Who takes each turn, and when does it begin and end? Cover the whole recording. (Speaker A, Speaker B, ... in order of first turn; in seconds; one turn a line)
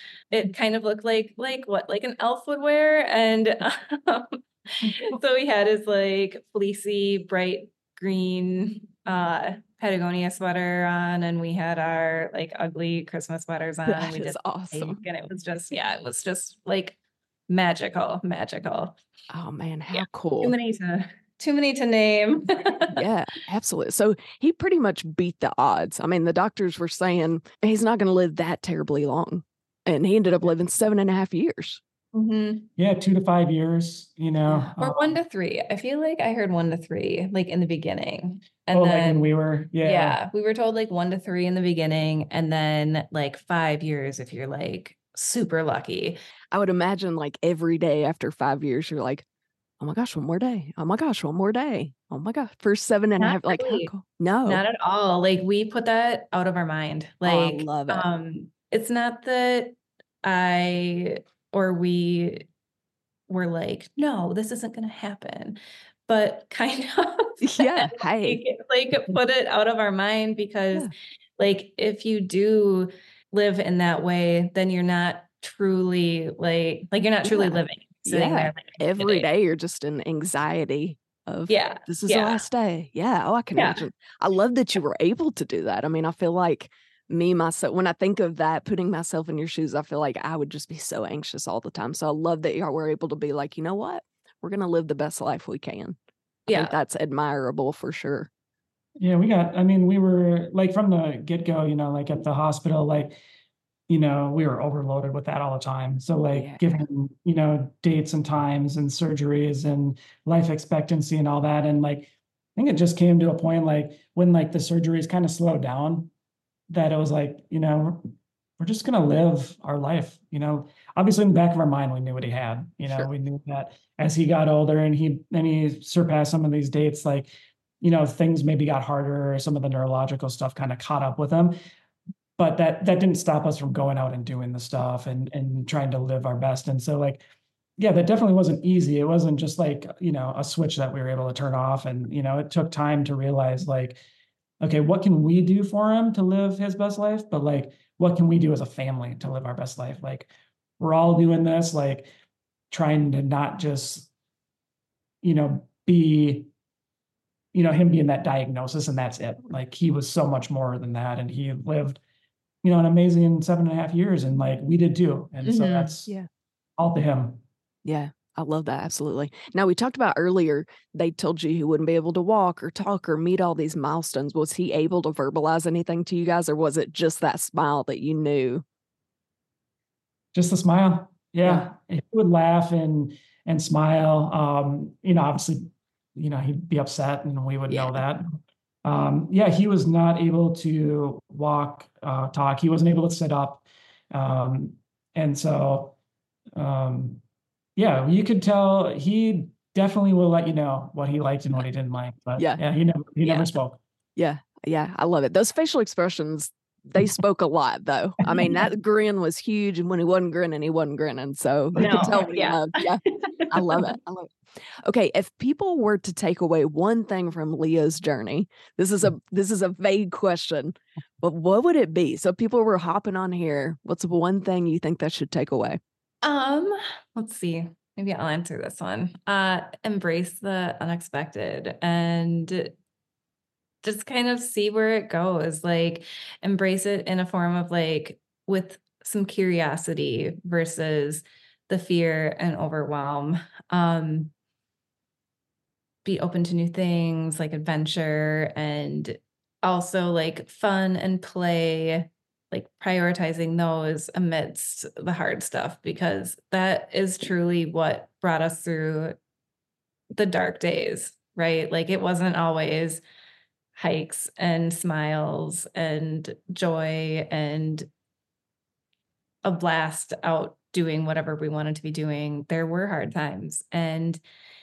Speaker A: 0.3-16.9
Speaker B: 13.9-15.0
Speaker A: 17.5-19.0
Speaker B: 19.3-20.5
Speaker A: 19.9-23.0
Speaker B: 22.9-31.8
Speaker A: 32.1-32.7
Speaker C: 32.8-35.0
Speaker A: 34.8-39.3
Speaker C: 38.7-40.2
Speaker A: 39.8-46.2
Speaker B: 46.5-49.2
Speaker B: 49.8-54.6
Speaker A: 53.2-53.9
Speaker A: 54.5-62.5
Speaker B: 57.2-58.0
Speaker A: 63.3-79.3
Speaker B: 67.4-68.4
Speaker B: 77.2-96.0
Speaker A: 81.5-82.4
Speaker A: 83.5-83.8
Speaker A: 96.5-96.7
Speaker B: 96.5-98.3
Speaker C: 99.0-103.2
Speaker C: 103.9-116.1
Speaker B: 106.3-106.6
Speaker C: 116.7-131.5
Speaker C: 132.4-137.2
Speaker C: 137.8-144.0
Speaker C: 144.6-152.1
Speaker C: 152.7-154.1
Speaker C: 155.2-156.5
Speaker C: 157.5-162.0
Speaker C: 162.6-166.1
Speaker A: 165.4-165.9
Speaker C: 166.8-167.4
Speaker B: 167.8-178.6
Speaker C: 180.3-188.3
Speaker B: 187.7-188.0
Speaker C: 188.8-195.9
Speaker C: 196.5-197.2
Speaker C: 197.8-203.8
Speaker A: 203.2-203.5
Speaker B: 204.2-225.8
Speaker C: 211.8-212.1
Speaker A: 211.8-213.9
Speaker A: 226.2-232.7
Speaker A: 233.8-244.3
Speaker A: 246.0-259.1
Speaker A: 260.1-263.0
Speaker A: 263.8-267.9
Speaker A: 269.4-274.2